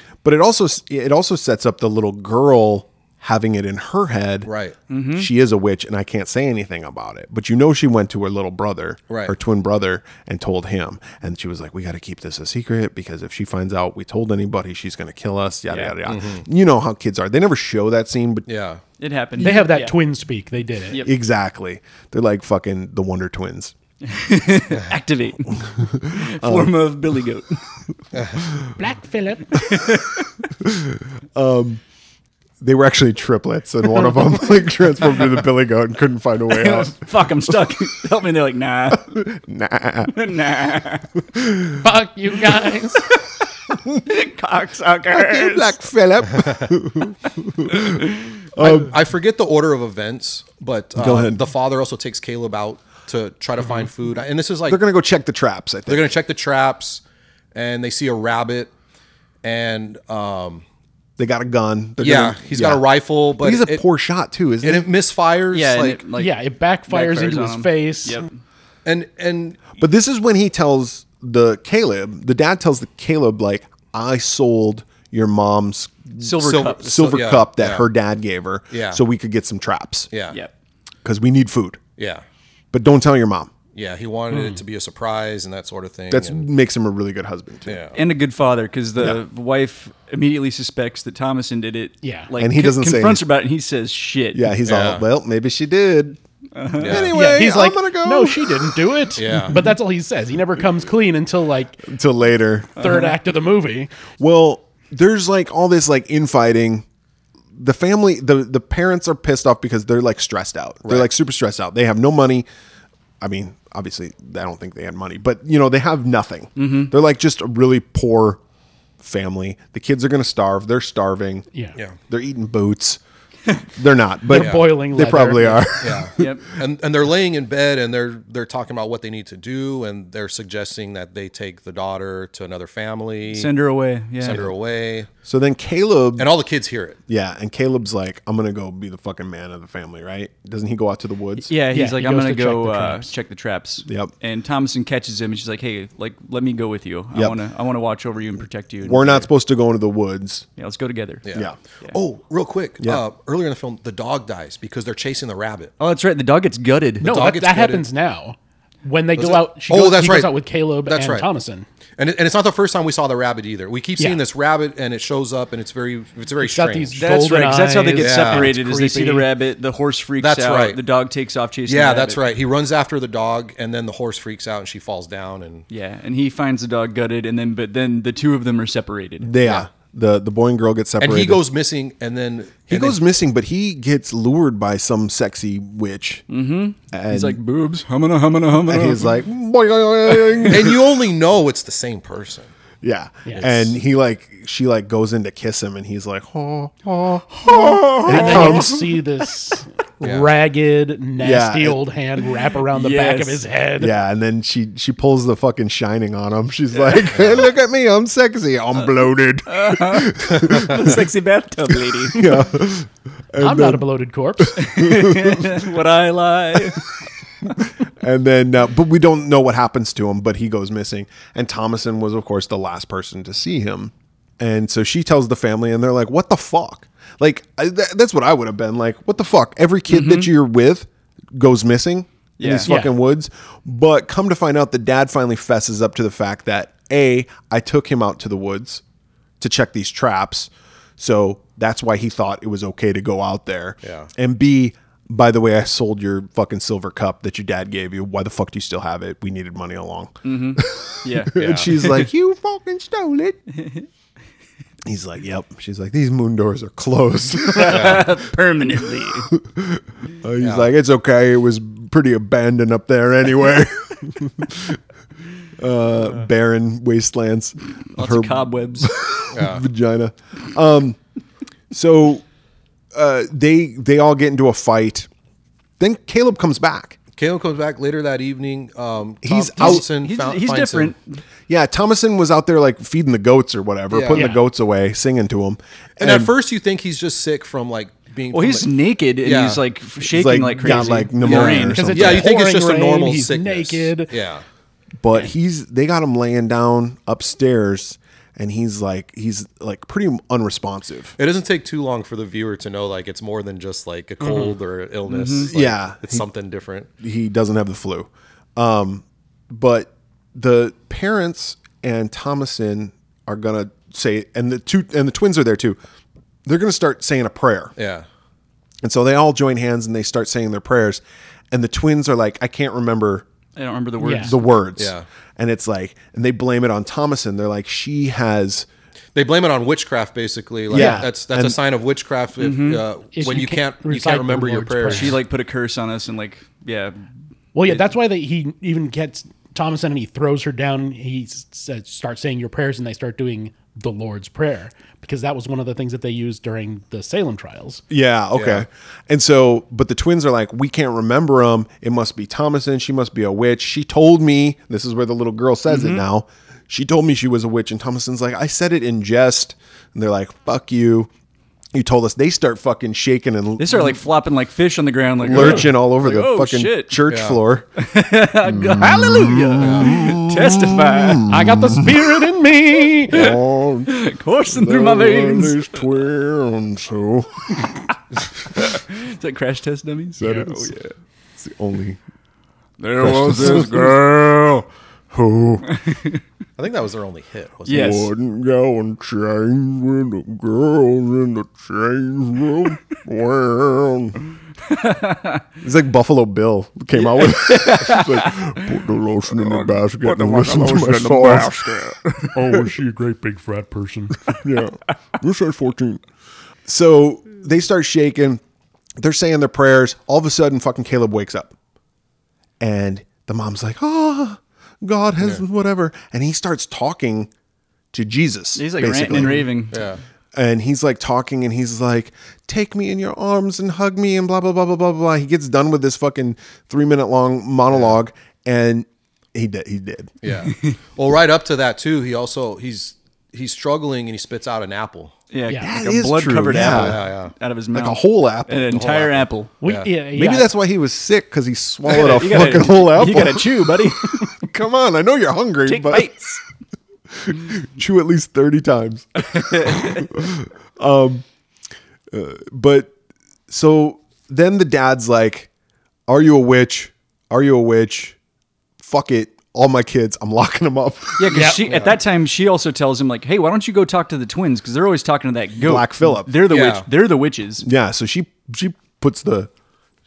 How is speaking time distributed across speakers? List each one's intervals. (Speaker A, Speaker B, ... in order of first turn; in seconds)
Speaker A: 0.2-4.5, 5.2-18.4, 21.0-23.7, 25.5-26.8, 28.4-28.7, 30.6-31.8, 32.6-37.7, 38.9-40.1, 41.3-41.8, 45.1-49.0, 51.0-51.4, 54.7-56.1, 61.2-62.8, 63.4-64.9, 69.8-80.1, 81.0-81.8, 82.7-83.5, 86.1-87.8, 92.4-93.2, 94.3-96.2, 96.8-99.4, 101.8-102.8, 104.2-106.8, 107.5-112.5, 113.2-118.4, 119.0-121.5, 122.1-123.0, 123.7-126.3, 134.3-134.5, 135.2-136.3, 137.1-141.5, 143.8-144.1, 147.1-147.4, 148.8-150.5, 179.2-181.4, 182.7-186.2, 186.9-187.4, 188.7-190.9, 192.8-198.9, 201.2-201.8, 203.8-211.1, 211.7-215.7, 216.5-238.8, 239.4-253.4, 254.8-264.8, 265.6-271.0, 271.7-272.2, 272.9-275.1, 275.8-277.0, 279.2-279.8, 281.5-286.3, 290.0-292.3, 295.0-301.1, 305.5-306.2, 307.0-315.8, 316.4-317.7, 318.8-323.2, 324.2-328.7, 330.7-331.6, 347.9-361.1, 361.7-364.0, 365.2-367.7, 368.4-372.3, 373.1-373.9, 374.5-378.6, 380.2-380.7, 381.4-382.0, 383.0-385.8, 387.7-394.2, 395.6-402.9, 404.2-406.0, 406.6-408.4, 409.0-411.5, 412.6-417.3, 417.9-419.6, 420.3-430.1, 435.6-437.1, 437.7-439.1, 440.1-446.3, 447.1-451.2, 452.1-452.9, 453.5-455.5, 456.1-458.2, 458.8-461.4, 465.6-466.4, 467.6-469.5
Speaker B: 4.4-4.8, 9.1-9.3, 16.0-16.4, 18.5-18.8, 28.1-28.4, 48.6-54.8, 55.9-57.0, 57.5-58.7, 59.4-60.6, 62.0-63.8, 64.6-66.0, 68.8-69.8, 76.4-77.8, 78.7-79.0, 80.1-80.4, 82.0-82.2, 83.7-86.5, 87.7-88.0, 94.7-95.0, 96.8-97.2, 99.2-99.7, 124.3-124.7, 125.8-133.5, 134.2-135.1, 136.2-137.0, 151.2-155.7, 157.0-157.8, 159.2-161.3, 162.0-167.0, 168.0-168.5, 170.2-170.8, 171.7-175.7, 179.4-179.7, 181.0-183.0, 190.5-192.5, 200.0-200.3, 207.1-207.5, 243.8-244.1, 251.3-251.7, 260.4-260.7, 269.3-269.6, 277.2-280.9, 283.9-284.2, 286.0-288.7, 289.2-289.6, 291.2-294.4, 301.2-306.9, 317.8-318.1, 324.8-325.1, 329.1-335.2, 348.3-348.6, 367.1-367.4, 369.6-370.0, 386.6-388.1, 419.7-420.0, 427.7-427.9, 430.2-435.1, 436.5-437.3, 438.7-439.1, 439.6-439.9, 461.6-461.9, 466.5-466.9
Speaker C: 4.9-5.3, 15.7-16.0, 19.0-19.9, 24.0-27.6, 29.6-30.4, 36.5-39.1, 40.1-41.1, 44.0-45.8, 47.7-48.1, 65.5-68.3, 76.2-76.9, 87.9-94.5, 96.5-97.1, 102.8-103.2, 116.5-116.9, 126.2-126.4, 133.3-134.4, 141.4-149.3, 150.6-151.2, 155.8-157.3, 167.0-172.2, 175.7-179.3, 186.3-189.2, 190.2-190.5, 197.4-198.7, 202.7-203.4, 206.7-207.2, 209.5-212.3, 214.6-216.8, 229.9-230.3, 232.4-232.7, 250.2-252.1, 253.6-253.8, 257.4-259.3, 267.9-268.9, 279.6-281.2, 288.3-292.1, 305.1-305.5, 323.6-324.5, 332.4-332.8, 334.9-337.1, 355.7-356.0, 363.6-367.0, 367.8-371.3, 373.1-375.9, 378.4-380.9, 382.8-384.0, 385.7-386.2, 387.7-388.1, 394.6-395.4, 396.9-398.8, 399.4-401.9, 418.5-419.8, 430.5-430.8, 435.3-439.5, 441.9-444.2, 445.7-446.4, 449.2-450.1, 461.2-467.6
Speaker D: 19.4-21.1, 28.8-29.6, 41.8-43.1, 66.2-68.2, 84.3-84.6, 92.0-92.3, 97.1-101.9, 102.8-103.9, 124.3-125.7, 141.7-143.1, 157.0-161.7, 166.4-169.3, 197.8-203.9, 213.4-214.7, 232.6-232.9, 284.1-284.4, 291.7-294.1, 304.2-304.5, 324.0-324.3, 330.7-331.1, 333.1-335.2, 337.5-347.8, 365.3-365.6, 371.2-373.4, 402.3-404.2, 439.6-440.5, 461.3-461.7